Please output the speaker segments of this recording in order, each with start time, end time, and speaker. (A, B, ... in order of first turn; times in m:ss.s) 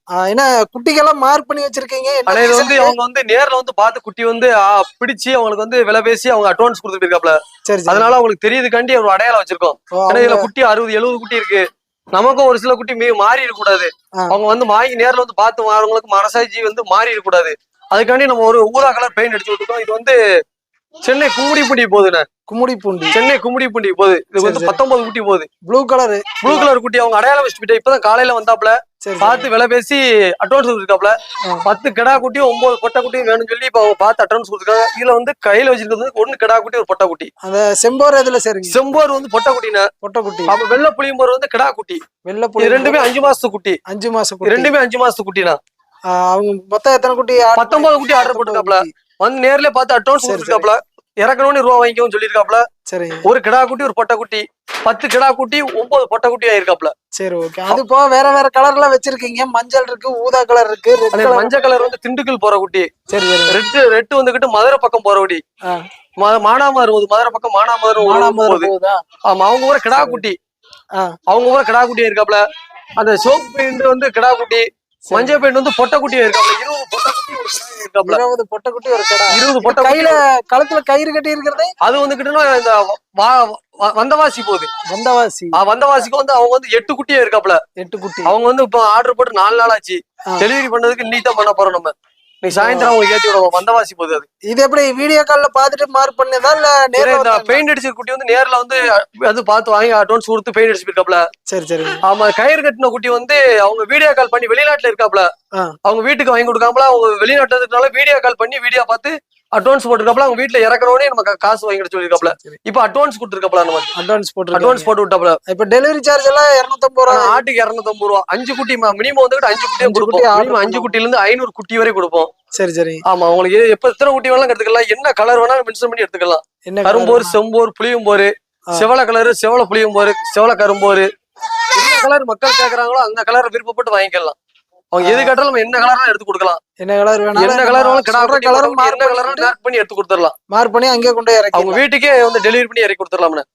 0:00.2-0:03.0 A
0:02.3-0:07.4 B
0:07.7-0:08.2 A
0:07.9-0:11.6 B
0:10.0-0:10.5 A
0:12.1-0:20.2 B
0:21.0-0:22.2 B
0:22.5-0:23.2 A
0:23.1-0:25.5 B
0:24.4-0:24.8 A
0:25.7-0:26.7 A
0:26.4-0:31.2 B
0:29.0-0:29.5 A
0:31.7-0:37.3 B
0:37.4-0:38.9 A
0:38.7-0:39.9 B
0:40.0-0:40.5 A
0:40.5-0:42.0 B
0:42.3-0:43.3 A
0:42.6-0:43.8 B
0:43.9-0:44.7 A
0:44.4-0:45.6 B
0:46.1-0:48.9 A
0:47.6-0:52.6 B
0:50.2-0:50.7 A
0:52.9-0:53.2 A
0:53.3-0:56.9 B
0:57.2-1:01.5 A
1:01.1-1:02.9 B
1:03.1-1:03.6 A
1:03.5-1:05.4 B
1:06.2-1:08.7 B
1:08.0-1:09.0 A
1:09.3-1:10.4 B
1:10.0-1:10.2 A
1:11.3-1:12.4 B
1:13.0-1:18.2 B
1:15.1-1:15.4 A
1:18.0-1:21.7 A
1:19.3-1:20.2 B
1:21.8-1:24.7 B
1:24.9-1:25.6 A
1:25.6-1:27.6 B
1:27.8-1:28.3 A
1:28.3-1:34.3 B
1:32.6-1:33.0 A
1:34.5-1:37.6 A
1:37.0-1:41.2 B
1:41.5-1:42.0 A
1:42.1-1:45.3 B
1:45.8-1:53.9 B
1:52.1-1:52.6 A
1:54.0-1:54.9 A
1:54.5-1:55.4 B
1:55.5-1:57.4 A
1:57.1-2:02.3 B
1:59.8-2:01.0 A
2:02.6-2:03.0 A
2:03.1-2:11.1 B
2:06.7-2:07.4 A
2:11.7-2:14.4 B
2:14.9-2:16.6 B
2:15.0-2:15.3 A
2:16.8-2:19.5 A
2:17.4-2:20.3 B
2:20.5-2:21.8 A
2:21.5-2:23.4 B